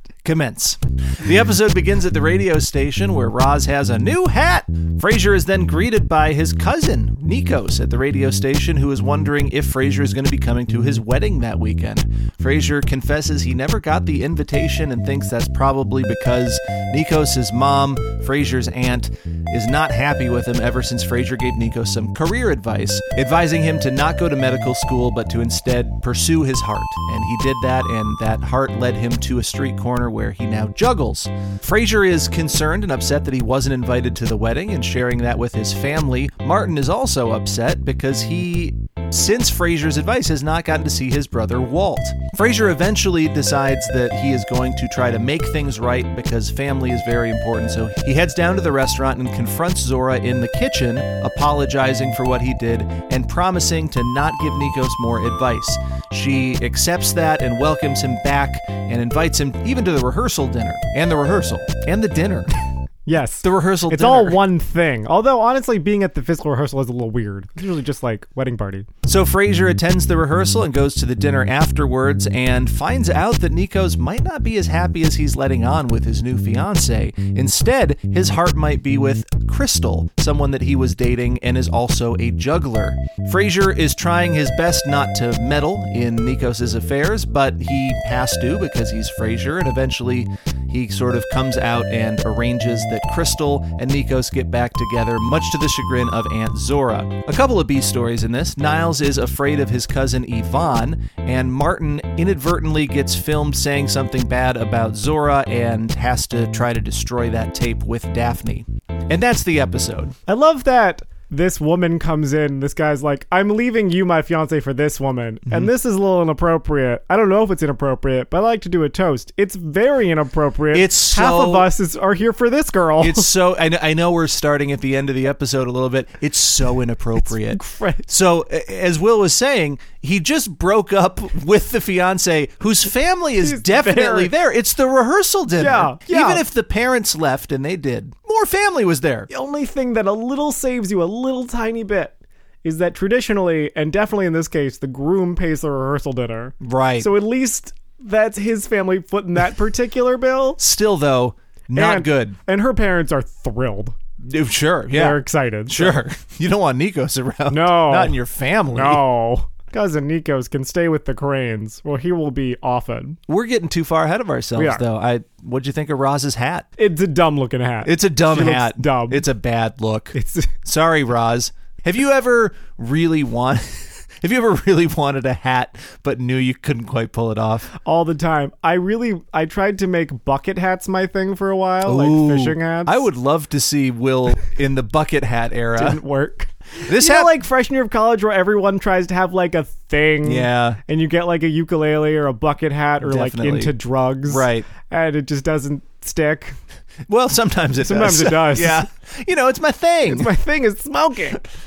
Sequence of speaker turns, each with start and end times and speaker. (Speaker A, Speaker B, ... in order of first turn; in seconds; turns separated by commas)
Speaker A: 0.2-62.6, Speaker B: 63.1-68.9, Speaker A: 63.4-64.4, Speaker A: 69.0-110.2, Speaker B: 110.3-123.3, Speaker A: 115.5-115.7, Speaker A: 120.7-121.7, Speaker A: 123.0-139.3, Speaker B: 127.5-128.1, Speaker B: 133.4-134.3, Speaker B: 135.6-136.4, Speaker B: 139.3-150.6, Speaker A: 146.6-147.1, Speaker A: 150.6-152.4, Speaker B: 151.8-154.0, Speaker A: 154.2-159.0, Speaker B: 154.9-156.0, Speaker B: 157.5-158.2, Speaker B: 158.7-163.2, Speaker A: 163.3-166.7, Speaker B: 164.6-164.8, Speaker B: 166.8-169.2, Speaker A: 167.8-177.7, Speaker B: 170.1-170.6, Speaker B: 177.7-183.0, Speaker A: 181.8-186.0, Speaker B: 185.8-196.6, Speaker A: 186.8-187.3, Speaker A: 190.2-190.8, Speaker A: 193.0-193.8, Speaker A: 194.3-194.7, Speaker A: 197.1-200.3, Speaker B: 197.8-198.9, Speaker B: 200.1-201.4